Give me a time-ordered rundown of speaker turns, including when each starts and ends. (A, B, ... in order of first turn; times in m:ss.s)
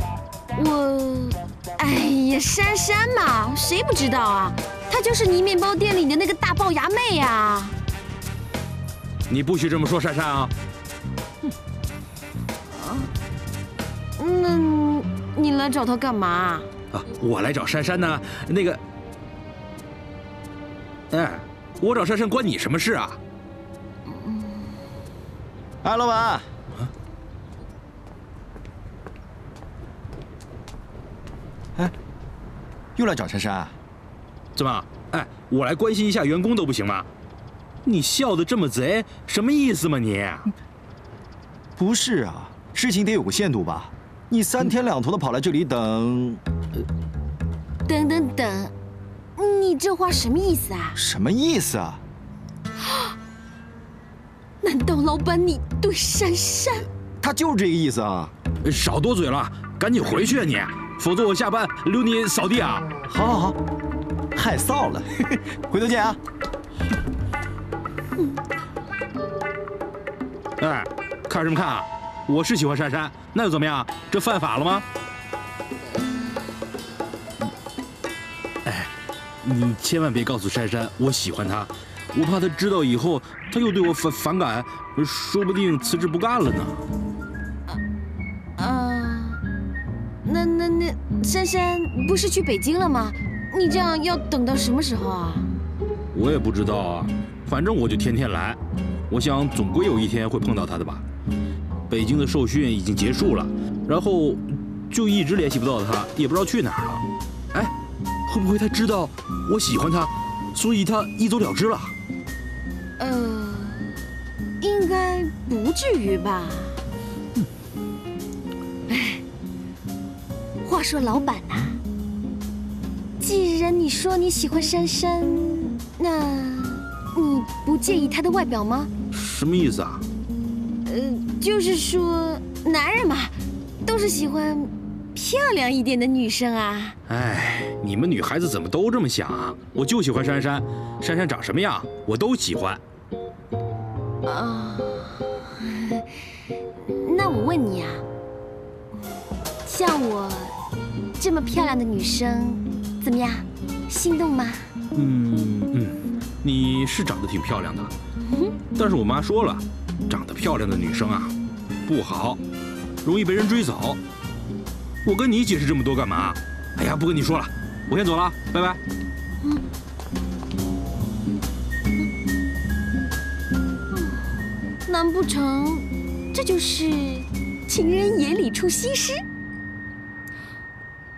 0:00.5-0:07.7 A
0:09.3-0:10.5 B
0:12.7-0:13.1 A
0:14.2-0:16.7 A
0:16.9-0:18.8 B
0:21.1-0:23.2 B
0:24.1-0:24.7 A
0:25.8-0:26.4 C
0:33.0-0:33.7 C
0:34.6-0:37.1 B
0:37.8-0:40.5 B
0:41.8-0:46.4 C
0:47.9-0:48.7 A
0:49.4-0:51.0 A
0:50.9-0:52.0 C
0:54.6-0:56.8 A
0:57.2-0:58.3 C
0:58.6-1:03.0 B
1:03.1-1:03.6 C
1:04.3-1:05.1 C
1:05.6-1:06.2 C
1:10.6-1:14.8 B
1:18.6-1:18.9 B
1:19.4-1:26.8 B
1:28.6-1:29.4 A
1:30.2-1:35.5 A
1:36.1-1:41.0 B
1:41.9-1:47.7 B
1:48.3-1:51.9 B
1:53.0-1:53.9 A
1:54.6-1:56.8 A
1:58.9-1:59.2 A
2:00.6-2:01.8 A
2:03.2-2:08.9 A
2:09.1-2:10.0 B
2:10.8-2:17.0 A
2:17.1-2:22.8 B
2:24.2-2:26.0 A
2:26.8-2:28.0 A
2:29.6-2:30.5 A
2:31.2-2:34.7 A
2:34.9-2:37.9 B
2:38.2-2:38.5 A
2:38.8-2:41.3 B
2:41.9-2:42.4 B
2:43.0-2:44.0 B
2:45.0-2:48.8 B
2:53.9-2:54.2 A
2:54.8-2:59.2 A